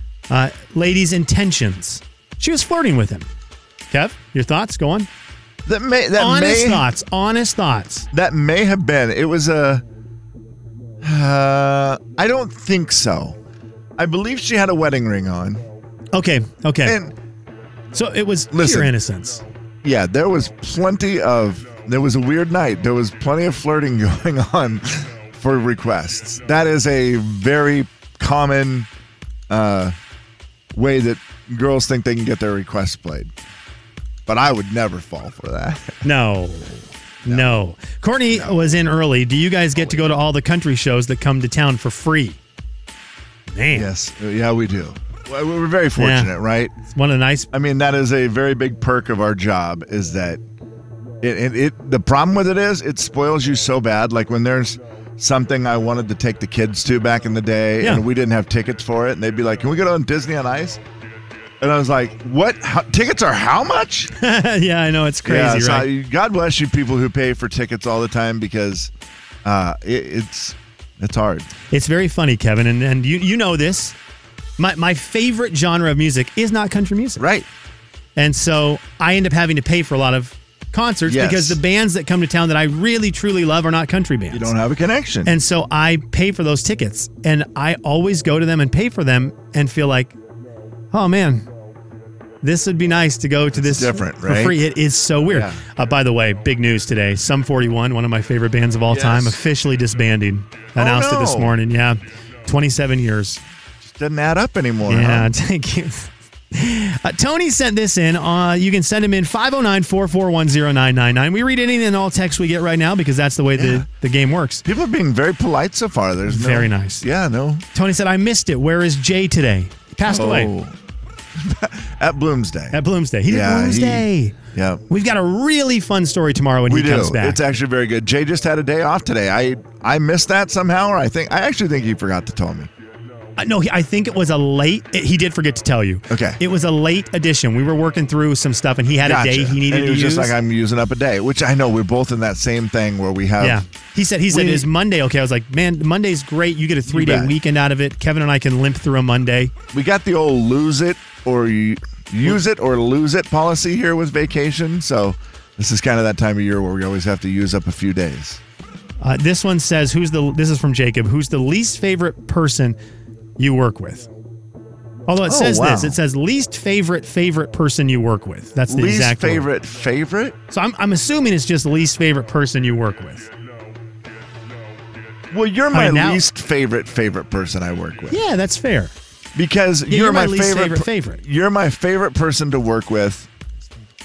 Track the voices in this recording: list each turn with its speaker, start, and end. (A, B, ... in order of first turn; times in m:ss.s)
0:00.3-0:03.3 A
0:03.9-0:05.1 A
0:05.6-0:06.9 B
0:06.2-0:08.1 A
0:08.1-0:09.8 B
0:11.0-0:13.4 B
0:14.0-0:15.6 B
0:16.1-0:17.0 A
0:16.8-0:17.1 B
0:17.9-0:19.4 A
0:18.5-0:18.9 B
0:19.8-0:28.9 B
0:29.5-0:30.0 B
0:30.7-0:33.3 B
0:34.3-0:36.0 B
0:36.0-0:42.4 A
0:38.3-0:38.8 B
0:39.8-0:40.2 B
0:43.5-0:43.9 A
0:43.7-0:46.7 B
0:46.0-0:47.5 A
0:47.5-0:50.4 B
0:51.2-1:00.8 B
0:57.8-0:58.0 A
1:01.6-1:04.1 B
1:04.2-1:05.9 A
1:05.2-1:08.9 B
1:09.4-1:11.5 B
1:11.7-1:13.9 A
1:14.6-1:17.2 A
1:17.2-1:17.5 B
1:18.2-1:24.5 A
1:21.0-1:21.6 B
1:24.3-1:25.4 B
1:25.2-1:30.2 A
1:30.9-1:31.4 A
1:32.4-1:43.4 A
1:33.5-1:34.6 B
1:35.3-1:35.6 B
1:38.9-1:39.4 B
1:40.8-1:41.5 B
1:43.8-1:45.3 B
1:44.8-1:54.6 A
1:53.6-1:53.8 B
1:54.6-1:57.6 B
1:56.3-1:57.0 A
1:57.7-2:00.5 A
2:00.0-2:00.7 B
2:01.3-2:04.8 B
2:02.7-2:07.4 A
2:06.7-2:12.7 B
2:13.4-2:20.3 A
2:16.1-2:16.4 B
2:19.0-2:23.6 B
2:23.4-2:29.5 A
2:24.3-2:24.7 B
2:26.8-2:27.3 B
2:29.7-2:38.4 B
2:39.0-2:42.8 A
2:43.4-2:44.1 A
2:45.1-2:49.5 A
2:45.2-2:46.0 B
2:48.7-2:50.4 B
2:50.5-2:53.3 A
2:55.3-2:58.2 B
2:55.7-2:56.2 A
2:58.1-2:58.9 A
2:59.3-3:03.3 B
2:59.9-3:01.2 A